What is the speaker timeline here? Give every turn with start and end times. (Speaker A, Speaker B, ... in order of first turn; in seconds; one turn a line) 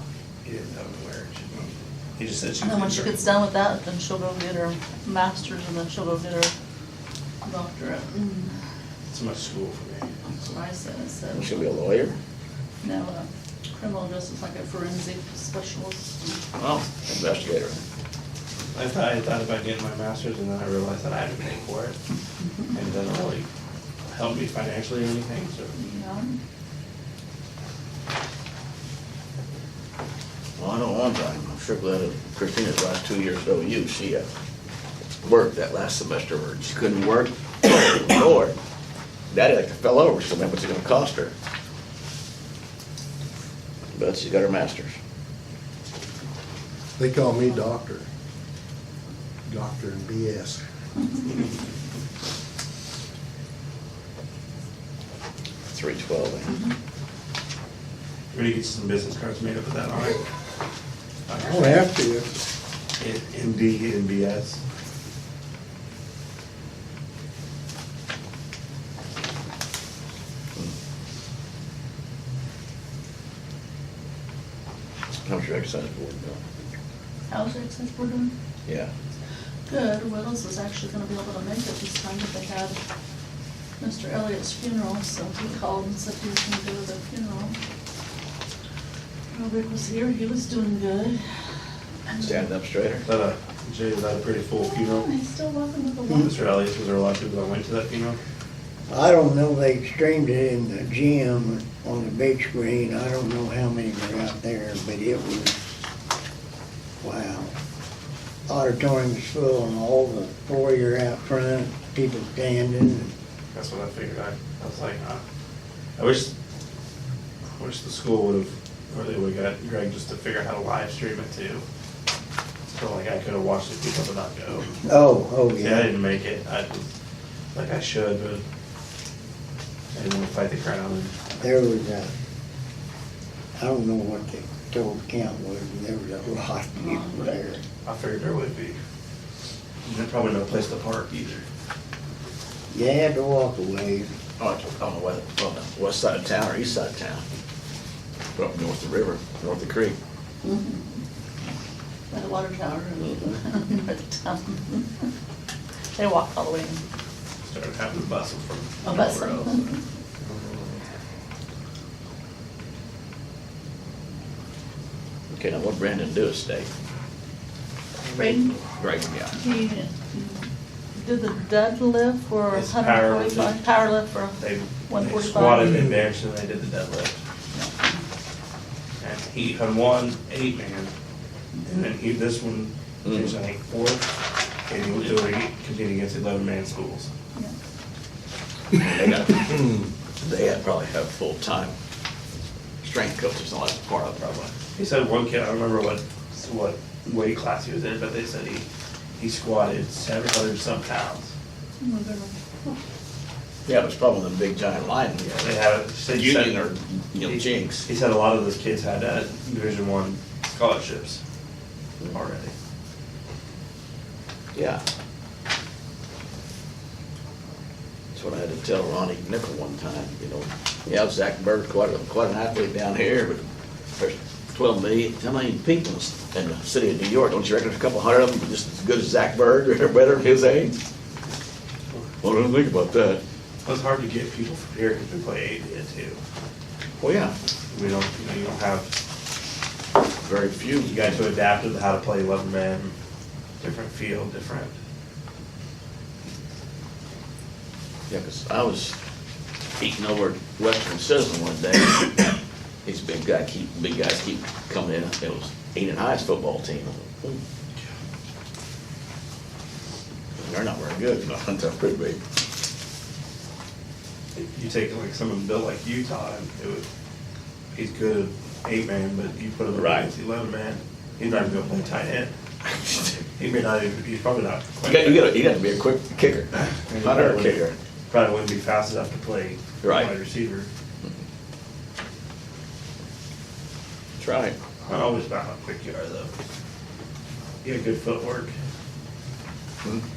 Speaker A: 0.5-3.2
Speaker B: 2.6-6.5
Speaker B: 7.4-8.5
Speaker A: 9.1-10.2
Speaker B: 10.3-11.8
Speaker C: 11.3-12.2
Speaker B: 12.8-16.4
Speaker C: 16.6-17.8
Speaker A: 18.7-22.0
Speaker A: 22.7-23.5
Speaker A: 24.1-25.7
Speaker B: 25.7-26.3
Speaker C: 30.6-34.3
Speaker C: 35.2-38.5
Speaker C: 39.3-41.3
Speaker C: 44.0-45.0
Speaker D: 47.0-48.1
Speaker D: 49.5-50.6
Speaker C: 55.7-56.5
Speaker B: 56.5-56.7
Speaker A: 58.3-60.2
Speaker A: 61.3-61.7
Speaker D: 61.3-62.3
Speaker A: 63.0-64.6
Speaker C: 75.2-76.4
Speaker B: 77.3-78.3
Speaker C: 78.7-78.9
Speaker B: 79.7-82.8
Speaker B: 83.8-87.6
Speaker B: 89.3-91.2
Speaker B: 92.1-92.4
Speaker C: 92.2-93.1
Speaker A: 93.0-95.1
Speaker B: 94.6-96.3
Speaker A: 96.1-98.2
Speaker E: 98.9-105.5
Speaker E: 107.0-107.5
Speaker E: 108.5-113.1
Speaker A: 113.5-115.2
Speaker A: 116.0-116.3
Speaker A: 117.6-121.6
Speaker A: 122.7-124.8
Speaker E: 124.8-125.9
Speaker A: 125.6-126.9
Speaker A: 127.5-128.4
Speaker A: 129.9-131.2
Speaker E: 131.4-132.1
Speaker E: 133.6-137.6
Speaker B: 136.8-137.3
Speaker A: 137.8-138.8
Speaker A: 139.9-141.4
Speaker E: 142.7-144.1
Speaker C: 144.4-147.2
Speaker C: 148.4-150.0
Speaker B: 150.4-151.0
Speaker B: 152.1-154.9
Speaker C: 153.0-153.4
Speaker B: 156.0-156.8
Speaker A: 157.4-159.7
Speaker B: 158.8-159.8
Speaker C: 165.3-166.7
Speaker B: 168.2-168.6
Speaker C: 168.8-169.4
Speaker B: 169.3-175.8
Speaker A: 172.5-173.6
Speaker A: 174.4-177.2
Speaker B: 177.5-178.0
Speaker A: 179.0-180.9
Speaker A: 181.7-184.1
Speaker C: 183.1-183.4
Speaker A: 184.7-187.1
Speaker C: 188.8-191.7
Speaker C: 192.8-194.5
Speaker A: 194.8-198.7
Speaker A: 199.2-201.3
Speaker B: 201.8-202.8
Speaker C: 203.7-205.3
Speaker A: 205.2-206.6
Speaker C: 206.1-207.9
Speaker A: 207.2-211.2
Speaker A: 212.1-212.5
Speaker C: 214.6-214.8
Speaker C: 218.2-223.4
Speaker C: 224.0-230.8
Speaker C: 232.2-233.2
Speaker A: 233.7-236.2
Speaker C: 237.0-237.3
Speaker A: 237.7-238.9
Speaker C: 240.2-241.3
Speaker A: 240.8-242.9
Speaker A: 243.6-244.7
Speaker C: 248.1-248.9
Speaker C: 249.8-257.4
Speaker C: 260.4-262.2
Speaker A: 264.4-266.9
Speaker A: 267.7-272.3
Speaker C: 269.7-270.1
Speaker A: 273.4-275.3
Speaker C: 274.8-277.8
Speaker A: 276.9-280.7
Speaker C: 279.8-280.1
Speaker C: 284.2-284.6
Speaker A: 284.9-286.3
Speaker A: 287.6-288.5